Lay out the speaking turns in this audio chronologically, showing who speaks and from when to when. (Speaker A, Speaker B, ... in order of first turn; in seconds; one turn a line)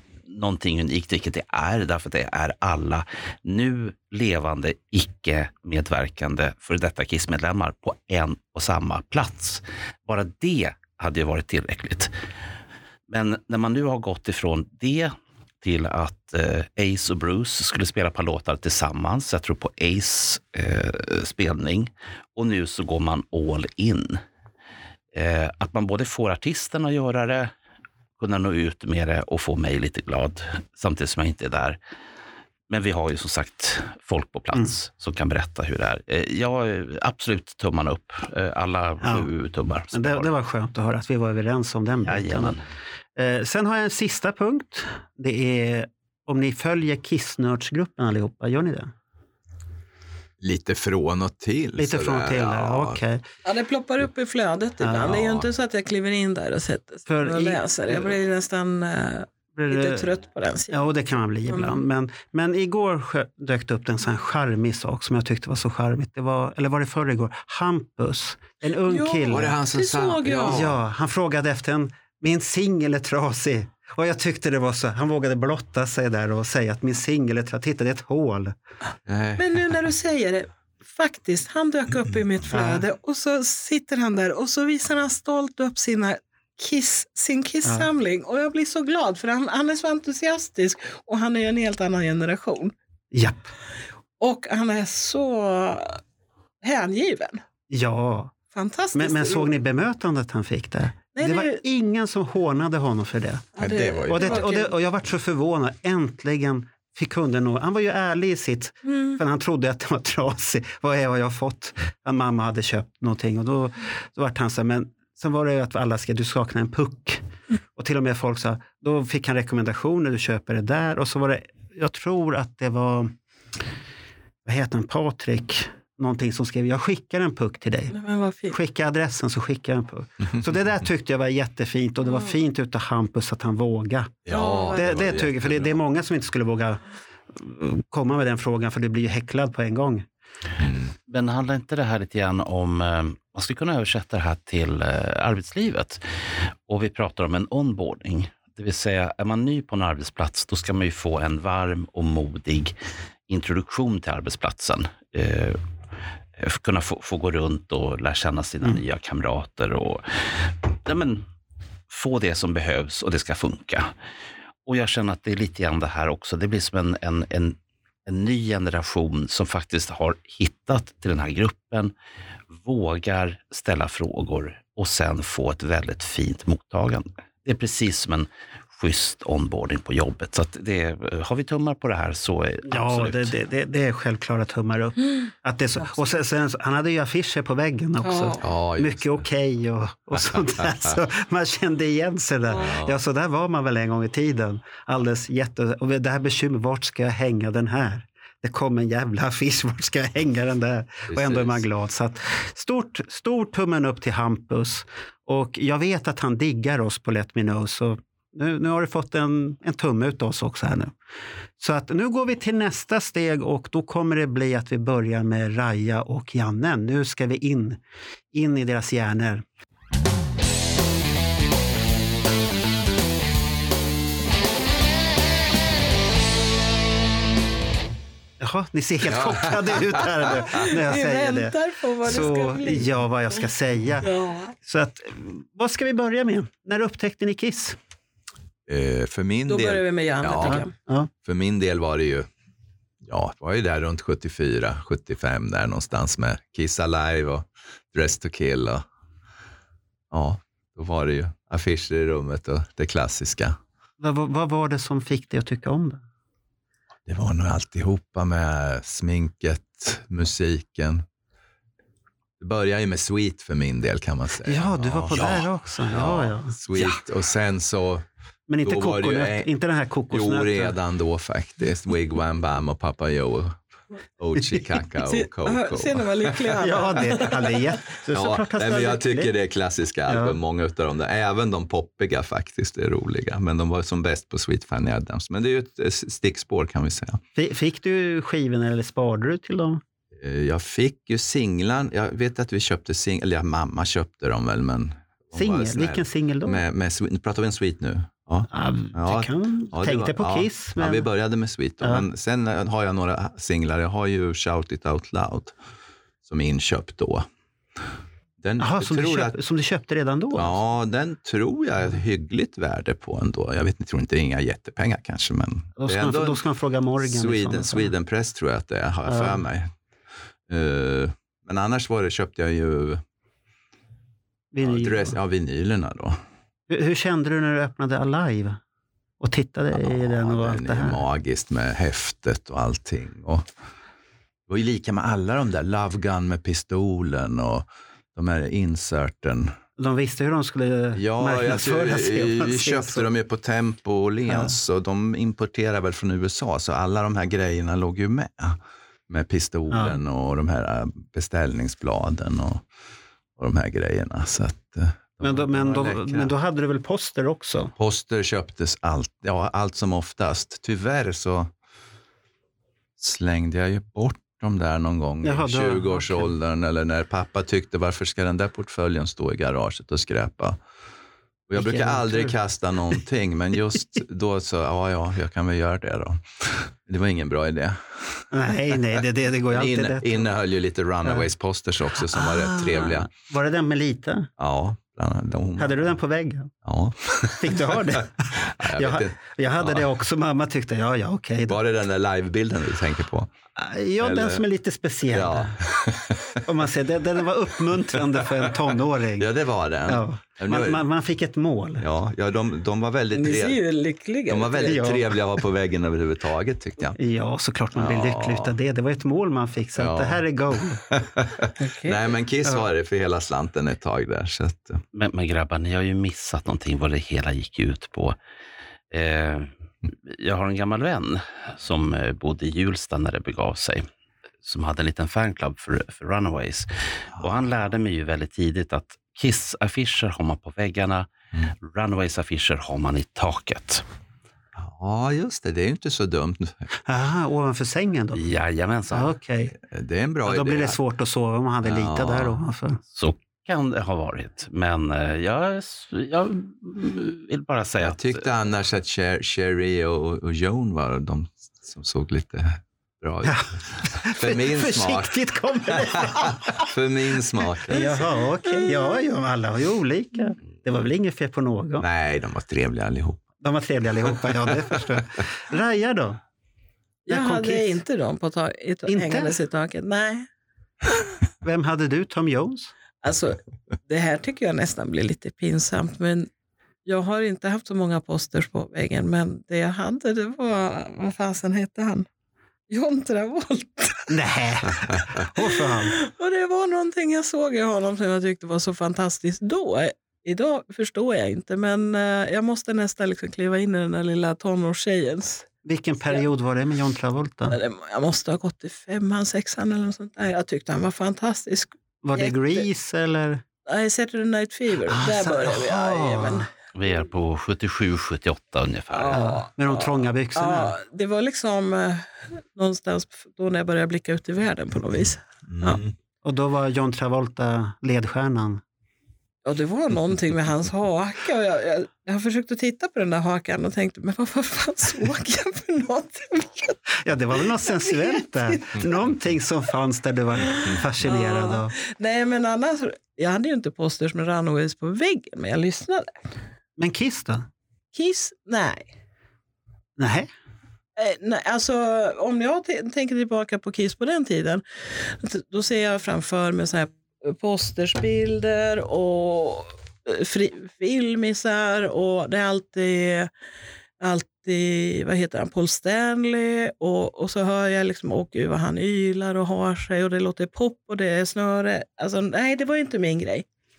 Speaker A: 0.3-12.1
Speaker A: 13.1-24.2
Speaker A: 25.1-27.5
Speaker A: 28.2-31.8
Speaker A: 32.7-40.3
Speaker B: 39.0-39.3
Speaker B: 39.9-42.6
Speaker A: 42.0-42.6
Speaker B: 43.2-48.9
Speaker C: 50.4-53.0
Speaker B: 51.8-53.2
Speaker D: 53.5-60.8
Speaker B: 54.8-55.2
Speaker C: 55.0-55.5
Speaker B: 57.1-58.2
Speaker B: 59.5-60.1
Speaker B: 60.7-69.6
Speaker D: 61.5-61.8
Speaker D: 68.8-70.7
Speaker C: 69.3-70.8
Speaker B: 70.5-78.5
Speaker C: 79.1-79.5
Speaker D: 79.4-92.7
Speaker B: 82.5-82.9
Speaker B: 87.6-87.9
Speaker B: 93.1-93.5
Speaker D: 94.2-96.0
Speaker D: 96.6-97.4
Speaker B: 97.7-98.3
Speaker D: 98.5-99.5
Speaker B: 98.9-103.5
Speaker D: 101.1-101.6
Speaker D: 103.6-104.7
Speaker C: 103.6-104.5
Speaker B: 104.1-117.2
Speaker D: 108.9-109.2
Speaker B: 117.8-123.1
Speaker B: 124.5-128.0
Speaker D: 127.9-128.6
Speaker B: 128.5-134.2
Speaker C: 134.2-135.8
Speaker D: 134.3-134.9
Speaker B: 134.7-136.8
Speaker B: 137.3-140.1
Speaker C: 140.6-140.9
Speaker A: 141.1-146.0
Speaker A: 146.7-152.8
Speaker A: 153.3-155.6
Speaker A: 156.4-161.3
Speaker A: 161.9-163.9
Speaker A: 164.7-171.9
Speaker A: 172.5-183.3
Speaker B: 182.7-210.9
Speaker D: 188.0-188.4
Speaker C: 188.4-189.2
Speaker C: 190.3-190.9
Speaker D: 192.5-192.8
Speaker C: 192.6-193.0
Speaker C: 201.1-201.6
Speaker B: 211.6-217.8
Speaker B: 218.3-219.4
Speaker B: 228.4-234.1
Speaker C: 229.1-230.3
Speaker D: 230.3-232.9
Speaker D: 234.0-234.5
Speaker B: 234.6-237.8
Speaker C: 238.7-240.6
Speaker D: 239.5-240.7
Speaker B: 240.4-241.1
Speaker C: 241.2-242.3
Speaker C: 243.0-248.8
Speaker C: 250.1-253.6
Speaker B: 254.0-256.0
Speaker C: 257.1-261.1
Speaker C: 262.4-268.1
Speaker B: 264.4-266.5
Speaker B: 268.5-270.8
Speaker C: 268.6-269.5
Speaker C: 270.1-273.6
Speaker C: 274.2-276.6
Speaker D: 275.0-277.7
Speaker B: 276.6-279.3
Speaker C: 278.1-287.2
Speaker B: 280.1-280.4
Speaker B: 287.4-289.8
Speaker C: 290.2-305.5
Speaker B: 295.4-296.6
Speaker B: 298.5-301.1
Speaker C: 306.2-307.3
Speaker C: 308.4-309.4
Speaker B: 308.6-310.6
Speaker C: 310.3-316.4
Speaker B: 315.8-317.9
Speaker C: 317.0-319.7
Speaker B: 319.1-319.4
Speaker C: 320.5-323.0
Speaker B: 324.5-325.2
Speaker C: 324.6-326.2
Speaker B: 326.7-328.6
Speaker B: 329.2-331.0
Speaker C: 329.7-333.5
Speaker C: 334.5-339.5
Speaker B: 339.8-343.1
Speaker C: 340.9-352.6
Speaker B: 344.3-344.5
Speaker B: 349.7-350.0
Speaker C: 353.4-356.3
Speaker B: 355.2-357.7
Speaker C: 357.8-361.5
Speaker C: 363.0-370.6
Speaker B: 365.2-366.3
Speaker C: 371.5-378.2
Speaker B: 371.6-372.4
Speaker B: 378.3-380.3
Speaker C: 379.5-383.1
Speaker B: 381.0-381.3
Speaker B: 382.0-384.3
Speaker C: 384.4-385.8
Speaker B: 385.6-386.5
Speaker C: 386.6-389.8
Speaker B: 387.3-391.6
Speaker C: 391.5-393.3
Speaker B: 393.6-395.6
Speaker C: 394.0-394.4
Speaker C: 395.1-396.4
Speaker B: 396.4-399.3
Speaker C: 399.2-400.8
Speaker B: 399.9-401.9
Speaker C: 401.8-403.6
Speaker D: 403.1-404.9
Speaker C: 404.3-407.0
Speaker B: 404.6-405.1
Speaker B: 407.0-410.8
Speaker C: 407.8-408.5
Speaker C: 409.8-410.2
Speaker C: 410.9-414.8
Speaker D: 411.6-412.0
Speaker A: 414.9-418.2
Speaker A: 418.9-423.9
Speaker A: 424.4-433.8
Speaker C: 434.6-436.7
Speaker B: 436.9-438.2
Speaker A: 438.1-439.1
Speaker B: 438.9-439.6
Speaker C: 439.6-440.8
Speaker B: 440.3-442.8
Speaker C: 441.6-442.4
Speaker A: 442.9-448.2
Speaker C: 447.8-455.1
Speaker B: 453.2-456.7
Speaker C: 455.7-457.9
Speaker B: 457.7-461.9
Speaker D: 457.7-459.0
Speaker C: 461.8-463.2
Speaker B: 463.4-466.2
Speaker D: 467.1-470.3
Speaker B: 467.1-467.8
Speaker B: 468.9-469.4
Speaker B: 471.4-472.7
Speaker D: 473.0-476.3
Speaker D: 476.9-482.1
Speaker D: 482.7-484.2
Speaker B: 484.1-486.0
Speaker D: 485.4-495.5
Speaker B: 495.6-497.6
Speaker D: 497.5-502.7
Speaker B: 502.0-503.4
Speaker D: 503.7-506.5
Speaker B: 504.9-506.5
Speaker A: 506.8-509.4
Speaker D: 508.9-515.8
Speaker B: 509.1-510.8
Speaker C: 515.5-515.9
Speaker B: 516.2-518.6
Speaker D: 519.5-526.8
Speaker B: 527.0-531.7
Speaker D: 527.6-528.9
Speaker D: 530.5-536.1
Speaker B: 536.8-537.5
Speaker D: 537.9-538.9
Speaker B: 540.0-540.3
Speaker D: 541.0-553.3
Speaker D: 554.0-563.5